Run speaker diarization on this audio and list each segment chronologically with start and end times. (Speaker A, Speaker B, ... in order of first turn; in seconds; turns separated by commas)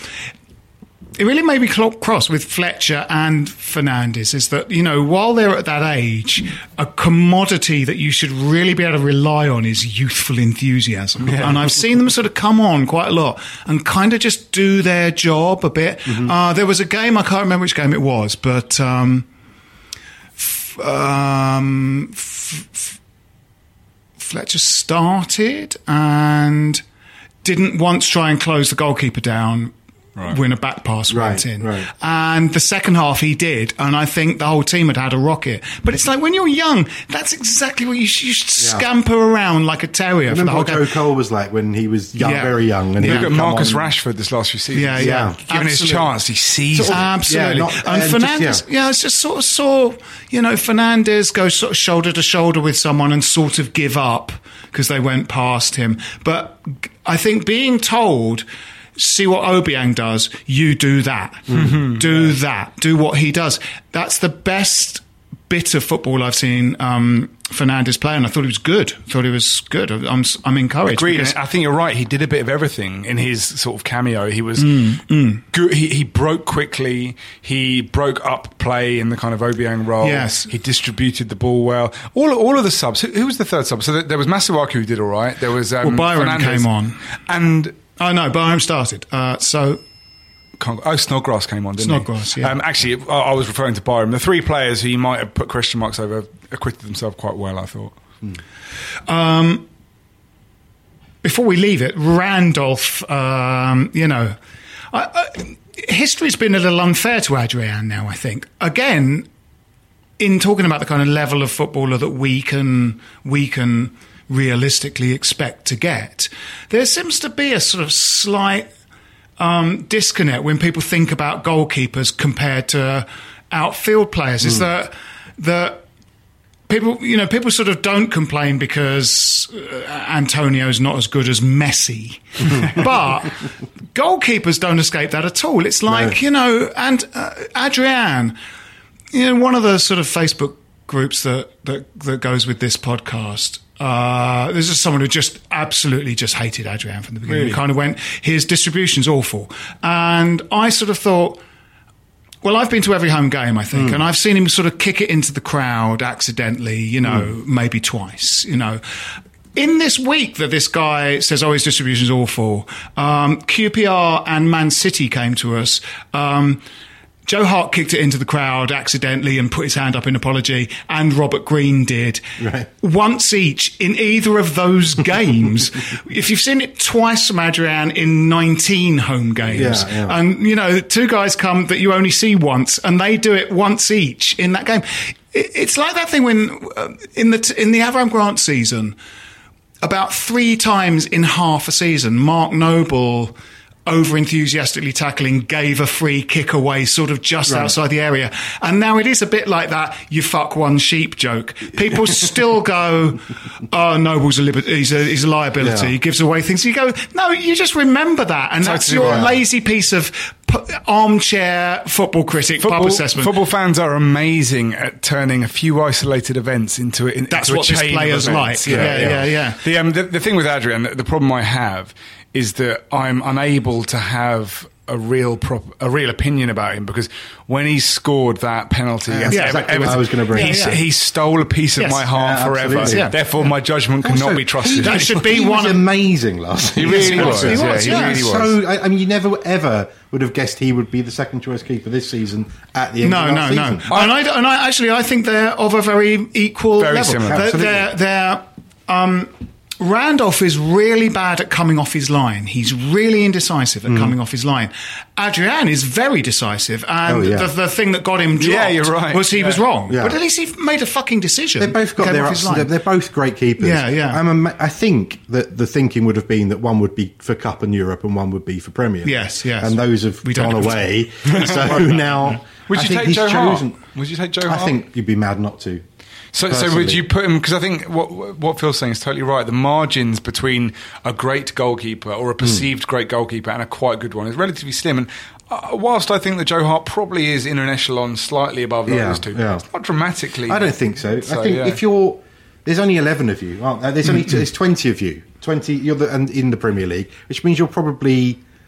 Speaker A: 1.2-19.3, Speaker B: 11.2-11.8, Speaker C: 16.1-16.3, Speaker A: 20.4-22.9, Speaker A: 24.2-26.8, Speaker A: 27.4-40.9, Speaker C: 31.1-31.9, Speaker C: 38.6-38.9, Speaker C: 40.3-43.9, Speaker A: 42.1-43.3, Speaker B: 43.0-47.1, Speaker A: 44.7-46.0, Speaker C: 45.0-45.5, Speaker C: 46.7-48.6, Speaker A: 46.8-58.4, Speaker A: 59.0-71.4, Speaker C: 61.5-61.8, Speaker B: 61.5-62.3, Speaker B: 70.9-75.0, Speaker A: 74.6-75.4, Speaker B: 75.5-86.7, Speaker A: 80.0-80.5, Speaker A: 85.8-87.0, Speaker B: 87.3-87.8, Speaker A: 88.0-89.8, Speaker B: 90.6-97.9, Speaker A: 91.8-92.5, Speaker A: 99.1-99.6, Speaker A: 101.2-104.4, Speaker A: 104.9-109.3, Speaker A: 110.2-118.7, Speaker A: 119.4-125.8, Speaker A: 126.7-138.3, Speaker C: 135.9-136.2, Speaker A: 139.1-151.4, Speaker B: 147.3-147.6, Speaker A: 152.4-158.8, Speaker C: 153.7-154.0, Speaker C: 157.0-157.3, Speaker A: 159.5-166.6, Speaker A: 167.2-172.2, Speaker C: 172.4-172.7, Speaker A: 172.8-189.0, Speaker C: 179.5-180.2, Speaker A: 189.8-193.3, Speaker A: 193.8-213.4, Speaker C: 197.4-197.7, Speaker C: 205.6-205.9, Speaker B: 208.6-209.3, Speaker C: 208.9-209.3, Speaker B: 212.6-235.2, Speaker A: 217.3-219.6, Speaker C: 218.2-219.2, Speaker C: 229.1-230.8, Speaker A: 229.3-230.8, Speaker A: 231.8-232.1, Speaker C: 232.1-233.5, Speaker A: 232.7-233.2, Speaker C: 234.0-244.0, Speaker A: 234.8-235.9, Speaker B: 236.7-238.6, Speaker A: 236.8-238.4, Speaker A: 243.0-262.7, Speaker B: 243.9-244.2, Speaker B: 246.8-247.4, Speaker C: 247.2-247.9, Speaker C: 253.8-254.1, Speaker C: 257.0-257.5, Speaker B: 258.4-259.6, Speaker C: 259.9-260.2, Speaker C: 261.6-273.8, Speaker A: 263.6-264.2, Speaker A: 269.0-270.8, Speaker B: 271.3-274.8, Speaker C: 274.4-275.8, Speaker B: 276.3-291.8, Speaker C: 276.5-277.1, Speaker C: 282.4-282.7, Speaker C: 288.9-289.6, Speaker C: 290.5-298.4